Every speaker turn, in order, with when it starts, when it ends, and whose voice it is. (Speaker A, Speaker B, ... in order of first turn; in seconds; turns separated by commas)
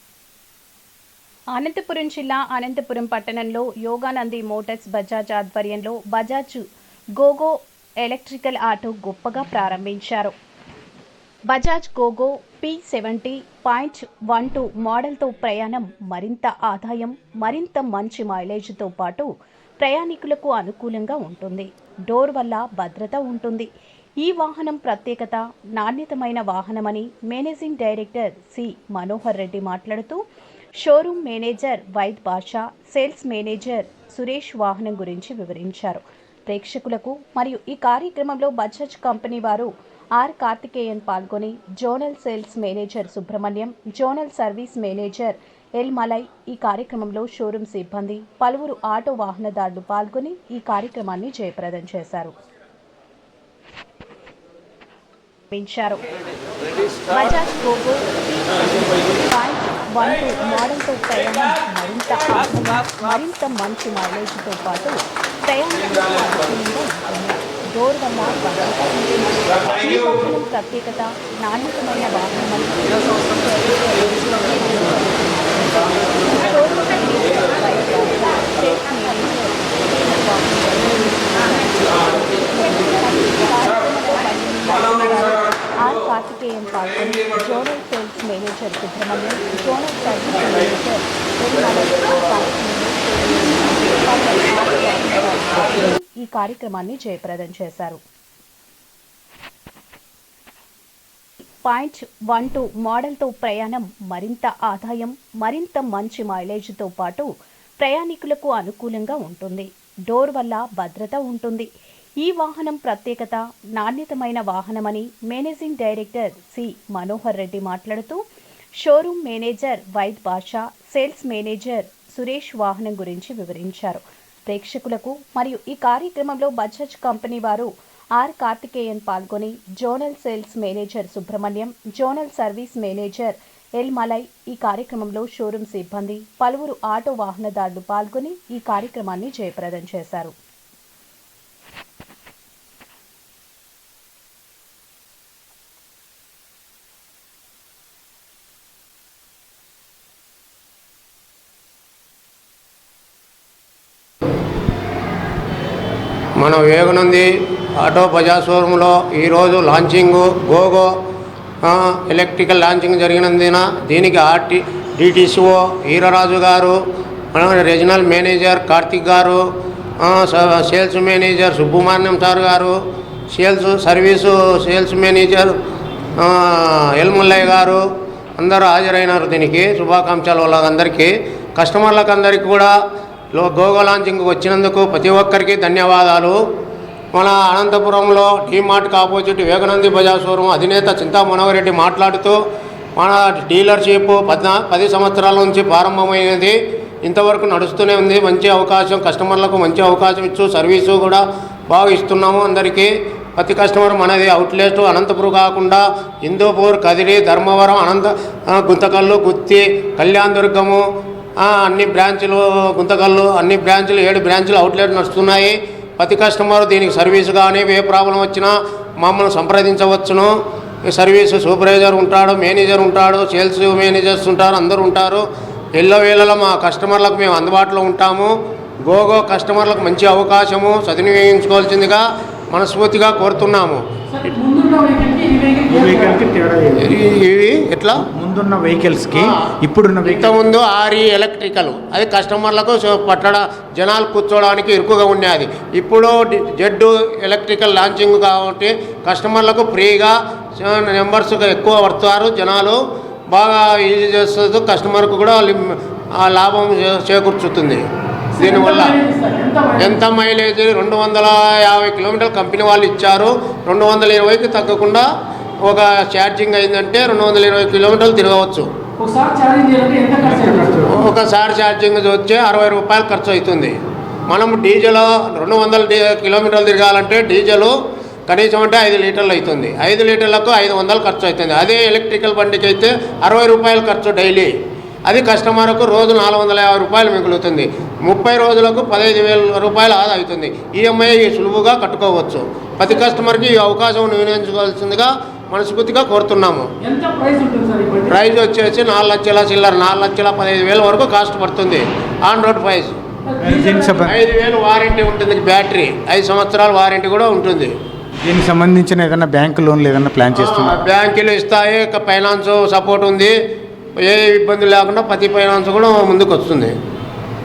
Speaker A: 1.5-6.6, Speaker A: 7.2-10.3, Speaker A: 11.5-19.3, Speaker A: 19.8-23.7, Speaker A: 24.2-30.2, Speaker A: 30.8-52.3, Speaker A: 55.5-56.0, Speaker A: 57.1-98.0, Speaker A: 101.6-111.7, Speaker A: 112.2-118.2, Speaker A: 118.8-140.3, Speaker B: 156.4-160.9, Speaker B: 161.6-166.8, Speaker B: 167.3-169.4, Speaker B: 170.0-172.8, Speaker B: 173.3-175.6, Speaker B: 176.2-177.8, Speaker B: 178.4-182.7, Speaker B: 183.3-186.4, Speaker B: 187.1-192.4, Speaker B: 192.9-210.8, Speaker B: 211.4-220.3, Speaker B: 220.9-228.3, Speaker B: 228.8-233.8, Speaker C: 234.1-236.2, Speaker D: 235.7-236.9, Speaker B: 236.8-238.0, Speaker D: 237.9-240.3, Speaker B: 239.2-239.4, Speaker B: 240.0-252.8, Speaker B: 253.3-257.8, Speaker C: 258.4-260.0, Speaker B: 258.4-259.0, Speaker B: 259.8-265.1, Speaker B: 265.6-268.7, Speaker C: 269.0-270.8, Speaker D: 270.3-270.9, Speaker B: 271.0-273.8, Speaker B: 274.3-277.8, Speaker B: 278.3-284.5, Speaker B: 285.1-296.7, Speaker C: 296.8-298.1, Speaker B: 298.1-302.9, Speaker C: 303.3-304.0, Speaker D: 303.4-304.1, Speaker B: 304.0-307.7, Speaker D: 308.2-310.8, Speaker B: 310.4-313.3, Speaker B: 314.0-316.7